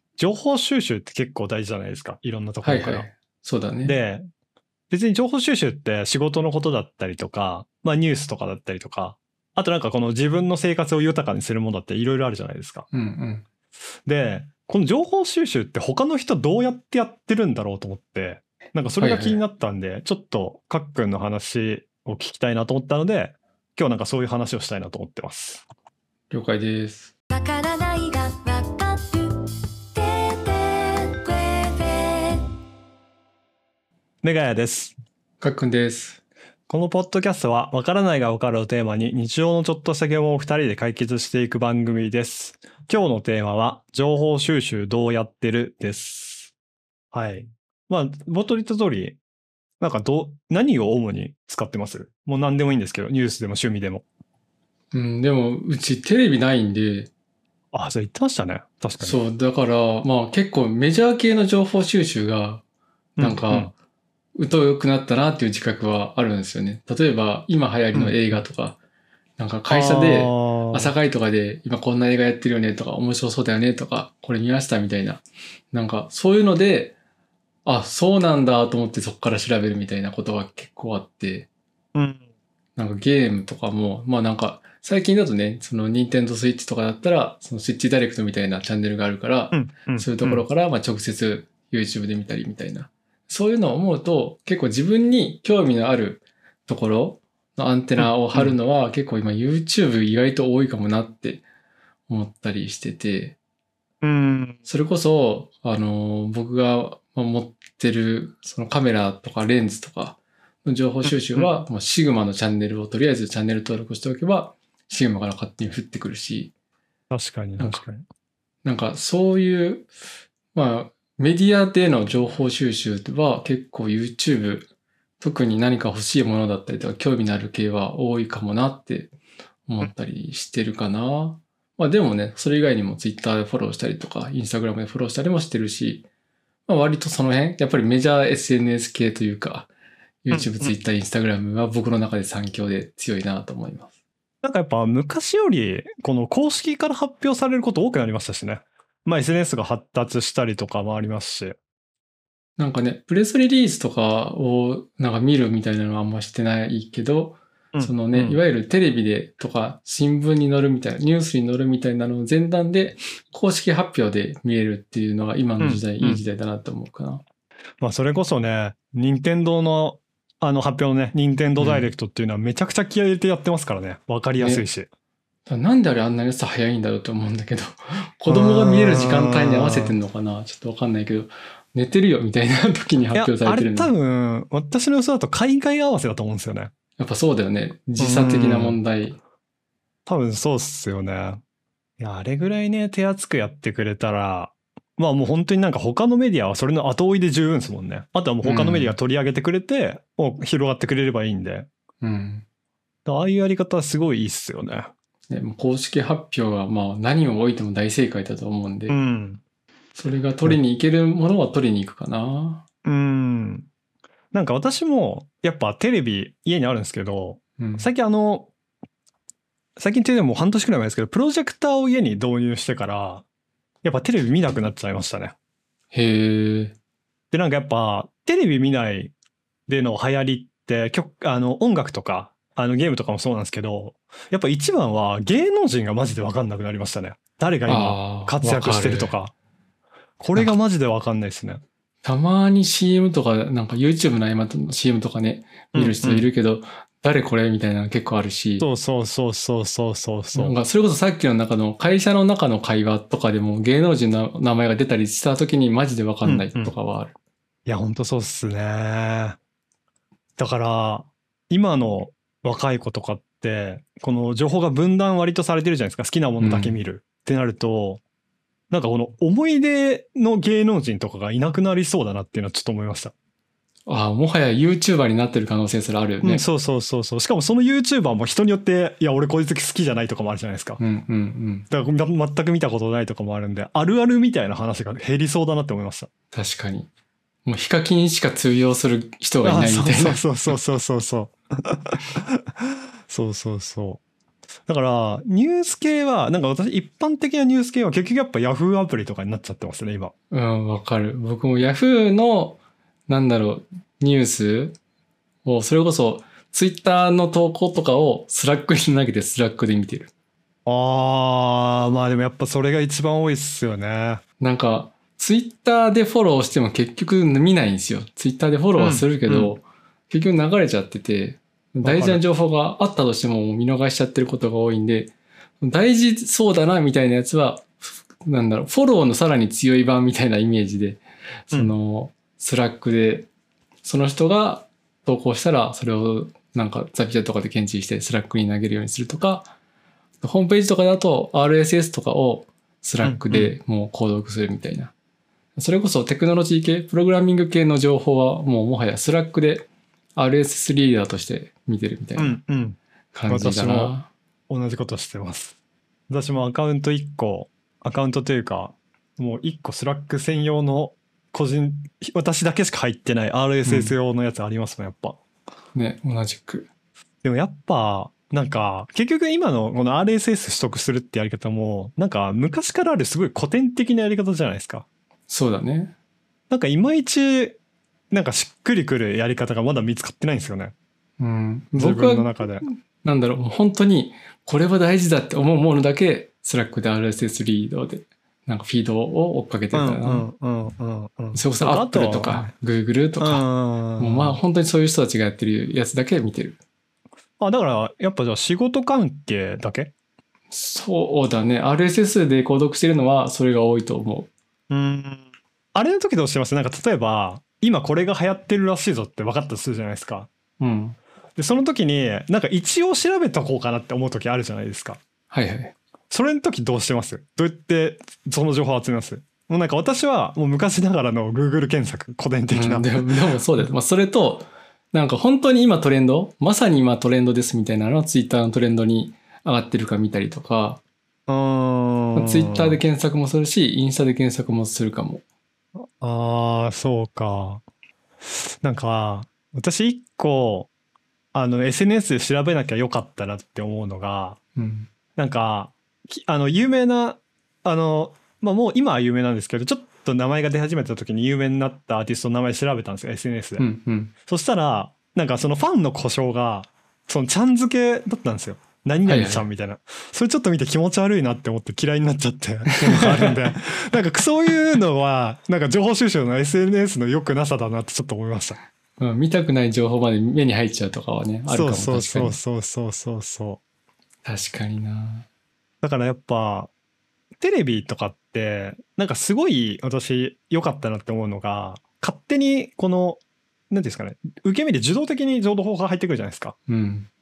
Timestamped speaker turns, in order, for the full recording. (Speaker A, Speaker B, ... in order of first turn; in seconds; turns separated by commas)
Speaker A: 0.2-3.0, Speaker B: 2.6-4.0, Speaker A: 3.8-4.2, Speaker A: 4.9-12.9, Speaker B: 12.9-13.4, Speaker A: 14.1-25.6, Speaker B: 19.0-19.4, Speaker B: 26.3-27.1, Speaker C: 27.3-29.4, Speaker C: 29.9-32.5, Speaker A: 34.2-34.9, Speaker B: 35.4-36.2, Speaker A: 36.7-46.5, Speaker A: 47.1-49.2, Speaker A: 49.8-54.0, Speaker B: 54.9-57.1, Speaker A: 57.7-59.2, Speaker B: 59.0-62.6, Speaker B: 63.2-63.7, Speaker A: 63.2-63.7, Speaker B: 64.3-68.8, Speaker A: 67.9-68.4, Speaker B: 69.4-76.9, Speaker A: 69.7-70.9, Speaker B: 77.7-81.5, Speaker A: 81.9-82.2, Speaker B: 82.8-101.4, Speaker A: 89.5-90.4, Speaker A: 98.0-98.5, Speaker B: 102.1-103.4, Speaker A: 104.0-104.6, Speaker B: 104.7-116.5, Speaker A: 111.0-111.5, Speaker A: 117.1-118.0, Speaker B: 118.6-119.9, Speaker B: 120.5-124.7, Speaker B: 125.2-129.1, Speaker B: 129.7-136.1, Speaker B: 136.7-139.7, Speaker B: 140.2-143.9, Speaker A: 140.3-140.7, Speaker A: 144.4-151.6, Speaker B: 152.6-167.2, Speaker A: 157.7-158.4, Speaker A: 165.6-166.2, Speaker A: 167.8-174.9, Speaker B: 171.6-171.9, Speaker B: 174.4-174.6, Speaker B: 175.5-183.9, Speaker A: 178.3-179.9, Speaker A: 183.1-186.7, Speaker B: 187.0-189.2, Speaker A: 188.0-188.8, Speaker A: 190.1-191.4, Speaker A: 192.0-201.7, Speaker B: 198.4-198.9, Speaker B: 202.0-202.4, Speaker A: 203.1-204.9, Speaker B: 205.3-208.9, Speaker A: 208.9-209.4, Speaker B: 209.9-212.6, Speaker A: 212.8-213.7, Speaker A: 214.3-218.5, Speaker B: 217.6-217.9, Speaker A: 219.8-223.2, Speaker A: 223.8-225.3, Speaker B: 225.9-226.7, Speaker A: 227.3-229.1, Speaker A: 229.7-239.3, Speaker B: 237.7-239.1, Speaker A: 240.2-241.6, Speaker B: 242.0-248.6, Speaker A: 245.7-246.3, Speaker A: 248.6-250.5, Speaker B: 250.3-257.1, Speaker A: 256.2-256.7, Speaker A: 257.6-259.4, Speaker A: 260.4-268.0, Speaker B: 266.4-266.8, Speaker A: 268.7-273.1, Speaker B: 273.9-276.4, Speaker A: 276.2-280.8, Speaker B: 280.8-281.7, Speaker A: 281.7-286.1, Speaker B: 286.3-286.9, Speaker B: 287.4-290.4, Speaker A: 289.4-294.0, Speaker A: 294.7-300.1, Speaker B: 300.3-304.8, Speaker B: 305.4-310.1, Speaker A: 310.6-314.2, Speaker B: 314.4-333.3, Speaker A: 318.8-319.5, Speaker A: 321.8-322.2, Speaker B: 333.8-339.5, Speaker B: 340.2-344.9, Speaker A: 343.0-343.5, Speaker B: 345.6-352.4, Speaker A: 352.2-353.9, Speaker B: 353.1-354.1, Speaker A: 354.5-355.6, Speaker A: 356.1-365.2, Speaker B: 363.6-363.9, Speaker B: 365.7-366.7, Speaker A: 367.2-374.9, Speaker B: 375.3-375.9, Speaker A: 376.5-377.6, Speaker A: 378.1-380.7, Speaker B: 381.2-390.2, Speaker A: 381.8-382.7, Speaker A: 389.7-392.5, Speaker B: 391.3-393.4, Speaker A: 393.2-394.4, Speaker B: 394.0-396.6, Speaker A: 397.4-399.9, Speaker B: 400.5-404.3, Speaker A: 404.7-410.3, Speaker B: 410.6-411.0, Speaker A: 411.4-415.0, Speaker B: 415.3-415.7, Speaker A: 416.1-423.7, Speaker B: 422.5-430.8, Speaker A: 431.3-432.8, Speaker B: 432.1-435.2, Speaker A: 435.7-437.6, Speaker A: 438.3-440.7, Speaker A: 441.3-444.4, Speaker B: 444.6-444.9, Speaker A: 445.1-453.6, Speaker B: 453.6-454.1, Speaker A: 454.3-468.6, Speaker B: 459.1-459.5, Speaker B: 462.8-463.3, Speaker B: 469.0-472.4, Speaker A: 471.5-473.6, Speaker B: 474.2-475.2, Speaker A: 475.8-476.7, Speaker A: 477.4-486.5, Speaker B: 486.7-487.1